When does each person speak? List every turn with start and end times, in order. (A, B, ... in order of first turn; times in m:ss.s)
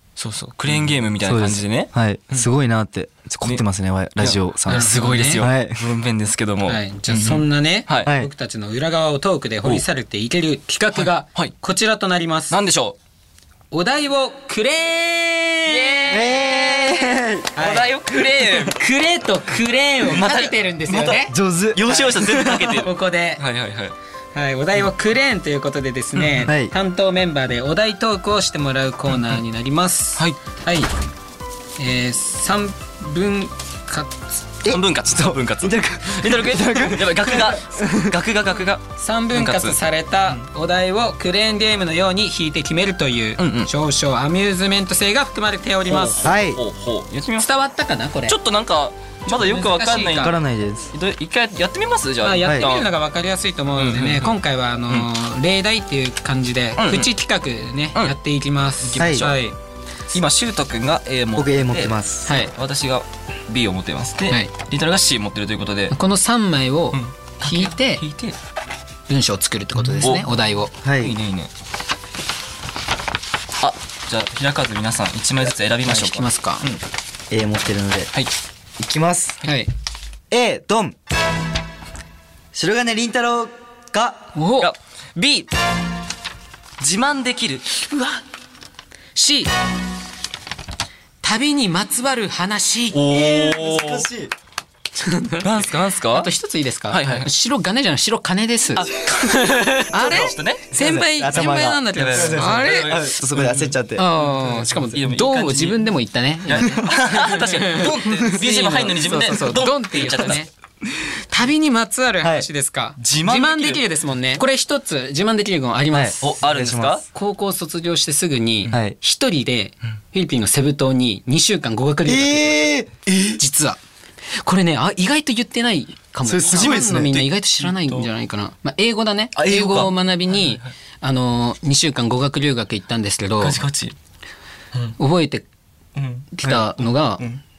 0:00.2-0:01.9 A
0:01.2-0:05.9 B
0:04.2-0:08.1 A
0:04.7-0:05.5 C
0:06.7-0:12.6 C
0:08.0-0:08.3 B
0:11.0-0:11.5 A
0:12.5-0:13.0 A
0:13.7-0:16.4 C
0:15.7-0:16.7 A
0:16.1-0:17.6 B
0:17.6-0:17.9 C
0:17.6-0:18.8 A
0:18.6-0:21.4 C
0:20.0-0:24.0 A
0:21.2-0:22.7 B
0:21.9-0:23.4 C
0:24.4-0:30.9 C
0:26.2-0:26.5 A
0:26.5-0:26.7 B
0:31.8-0:34.4 C
0:34.6-0:38.2 B
0:34.7-0:40.4 A
0:39.0-0:46.3 C
0:43.4-0:43.7 A
0:45.9-0:47.5 A
0:46.2-0:46.6 B
0:47.4-0:48.4 C
0:48.3-0:50.4 A
0:49.3-0:50.4 C
0:50.2-0:50.9 B
0:50.9-0:52.9 A
0:52.2-0:59.6 C
0:53.8-0:54.4 A
0:56.8-0:57.1 A
0:58.8-0:59.4 A
0:59.0-0:59.2 B
1:00.1-1:06.0 A
1:01.4-1:02.3 B
1:02.3-1:02.5 C
1:05.9-1:08.0 C
1:06.9-1:08.4 A
1:09.1-1:10.7 C
1:10.0-1:10.3 A
1:10.8-1:11.2 B
1:11.0-1:11.5 A
1:13.6-1:16.8 A
1:15.9-1:16.7 C
1:17.3-1:18.1 B
1:18.8-1:19.4 B
1:19.4-1:19.7 C
1:20.3-1:21.0 B
1:22.5-1:24.3 B
1:24.4-1:24.7 C
1:24.6-1:25.5 A
1:26.8-1:28.2 A
1:29.2-1:29.5 C
1:31.2-1:33.0 C
1:32.9-1:34.1 A
1:33.1-1:34.3 B
1:35.0-1:35.5 C
1:35.4-1:36.3 A
1:36.1-1:43.0 C
1:36.9-1:37.3 A
1:38.8-1:40.7 A
1:40.0-1:44.0 B
1:42.0-1:45.9 A
1:44.0-1:50.5 C
1:46.5-1:50.4 A
1:51.3-1:56.4 C
1:53.0-1:53.8 A
1:55.9-1:57.0 B
1:56.2-1:57.0 A
1:57.1-2:02.7 C
2:02.1-2:02.9 B
2:03.1-2:03.4 A
2:03.4-2:03.8 C
2:04.3-2:13.6 C
2:06.3-2:06.9 B
2:06.4-2:08.1 A
2:09.4-2:10.6 A
2:13.4-2:14.0 A
2:15.0-2:15.4 C
2:16.0-2:17.4 A
2:16.3-2:17.2 C